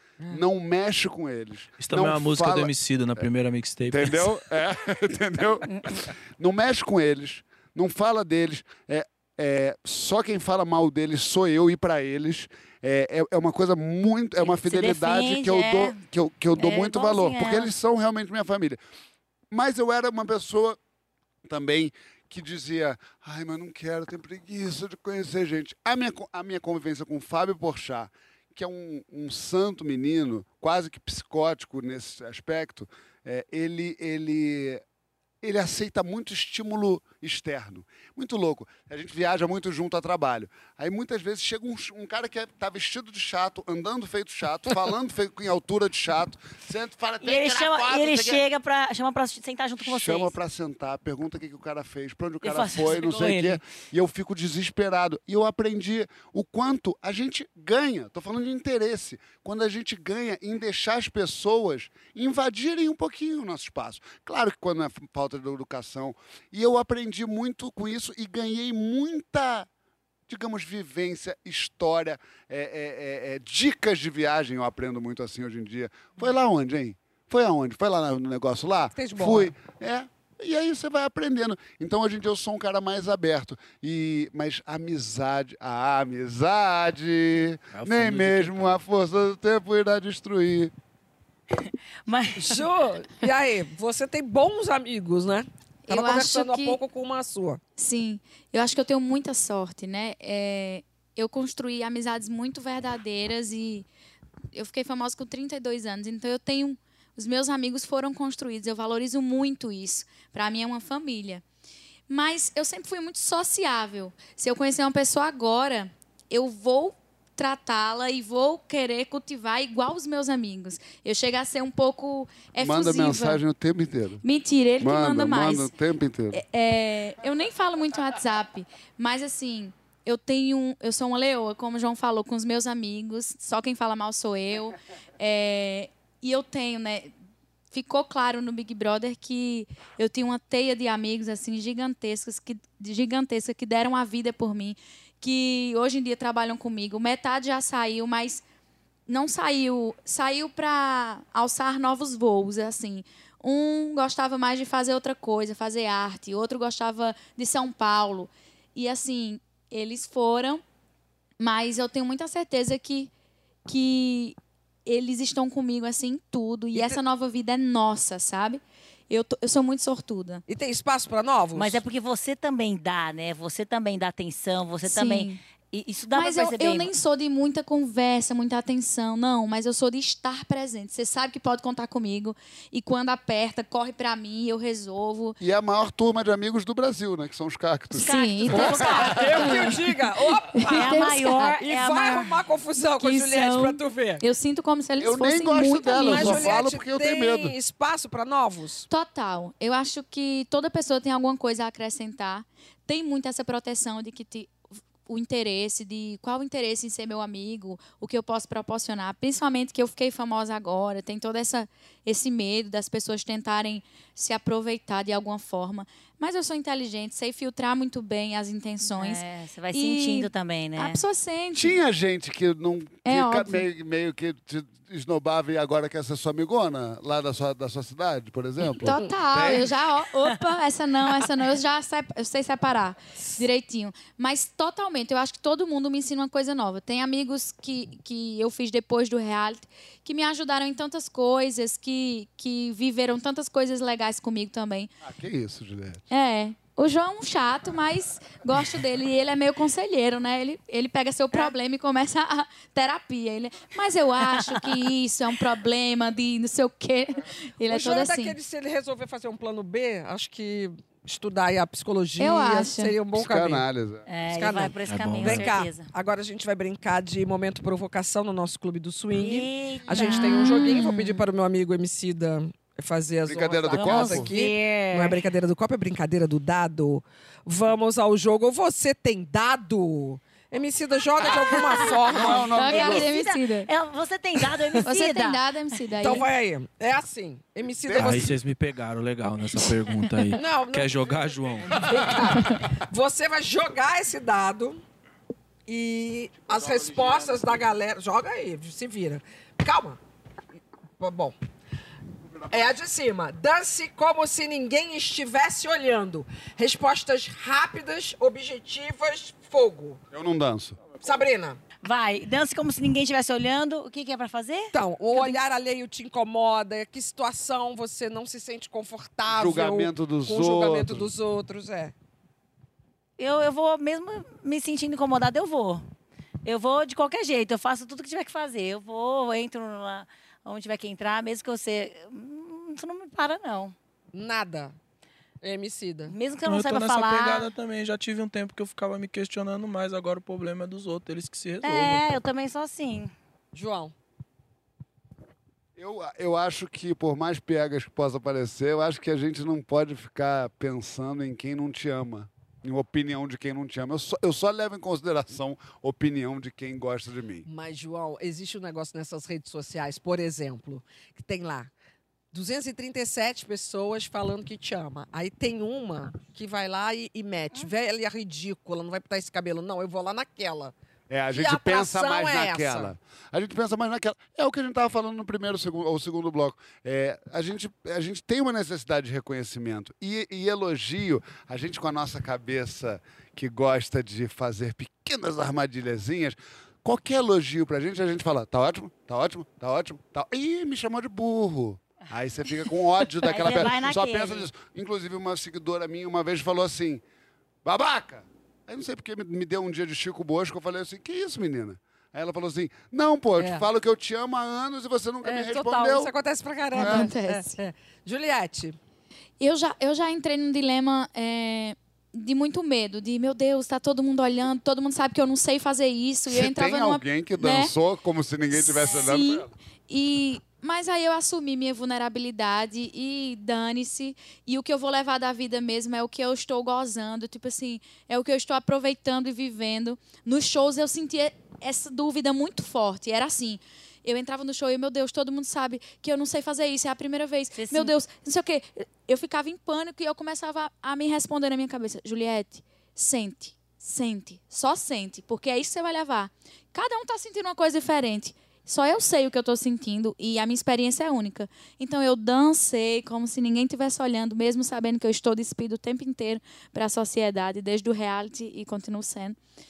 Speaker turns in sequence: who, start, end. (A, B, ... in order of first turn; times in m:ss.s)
0:00.3-0:03.2 A
0:01.8-0:04.3 B
0:03.9-0:18.8 A
0:14.4-0:16.0 C
0:16.6-0:17.7 C
0:19.5-0:20.8 A
0:21.4-0:34.8 A
0:35.4-0:48.4 A
0:47.2-0:50.3 C
0:49.8-1:09.7 A
0:52.4-0:53.6 C
1:10.3-1:30.7 A
1:18.9-1:19.5 D
1:27.7-1:28.8 B
1:32.1-1:32.6 C
1:32.4-1:37.6 D
1:35.9-1:36.8 E
1:37.8-1:43.9 E
1:44.5-1:51.4 E
1:52.1-2:03.4 E
2:02.6-2:04.2 A
2:04.2-2:05.7 E
2:04.8-2:06.4 A
2:06.3-2:17.1 E
2:17.7-2:28.4 E
2:29.1-2:40.6 E
2:41.4-2:43.1 E
2:43.6-2:50.4 E
2:46.7-2:47.0 D
2:50.5-2:51.8 D
2:51.5-2:56.9 C
2:54.8-2:55.4 E
2:56.1-3:05.4 E
3:05.4-3:09.6 A
3:07.9-3:09.6 C
3:08.0-3:09.7 E
3:08.7-3:14.2 D
3:10.5-3:11.4 E
3:10.7-3:13.8 C
3:14.2-3:16.6 E
3:15.0-3:17.5 A
3:15.9-3:18.9 D
3:18.9-3:41.8 E
3:38.9-3:41.0 C
3:41.5-3:49.7 A
3:43.0-3:43.6 E
3:48.8-4:04.9 E
3:53.2-3:53.4 D
4:05.0-4:06.0 A
4:06.1-4:18.4 E
4:17.7-4:23.6 D
4:22.2-4:23.0 E
4:23.1-4:24.0 A
4:24.1-4:25.9 C
4:24.3-4:42.5 D
4:24.9-4:25.5 B
4:29.1-4:30.9 C
4:30.0-4:31.2 E
4:33.3-4:34.3 A
4:33.7-4:35.2 C
4:41.7-4:45.4 C
4:42.0-4:43.1 A
4:42.5-4:43.7 E
4:44.8-4:46.3 E
4:46.0-4:48.3 D
4:47.8-4:48.4 A
4:48.0-4:51.8 B
4:50.3-4:51.2 D
4:51.7-4:54.8 D
4:55.7-5:00.0 D
5:01.0-5:01.3 D
5:02.5-5:10.0 D
5:10.1-5:11.0 A
5:11.0-5:11.6 D
5:11.8-5:15.4 C
5:14.7-5:21.9 D
5:19.3-5:21.1 A
5:23.2-5:25.8 C
5:26.4-5:33.7 C
5:34.1-5:34.7 D
5:35.4-5:36.1 D
5:36.1-5:37.5 C
5:36.4-5:42.0 B
5:41.6-5:43.1 C
5:43.5-5:43.9 D
5:45.8-5:57.4 A
5:57.4-6:01.7 D
6:02.3-6:10.7 D
6:11.1-6:37.0 A
6:11.3-6:12.9 D
6:33.2-6:34.5 C
6:37.6-6:46.1 A
6:43.4-6:43.6 D
6:45.2-6:48.8 D
6:46.7-6:47.1 A
6:46.7-6:47.6 E
6:49.4-6:57.7 E
6:56.3-6:59.5 A
6:58.5-7:39.4 E
7:17.5-7:17.9 C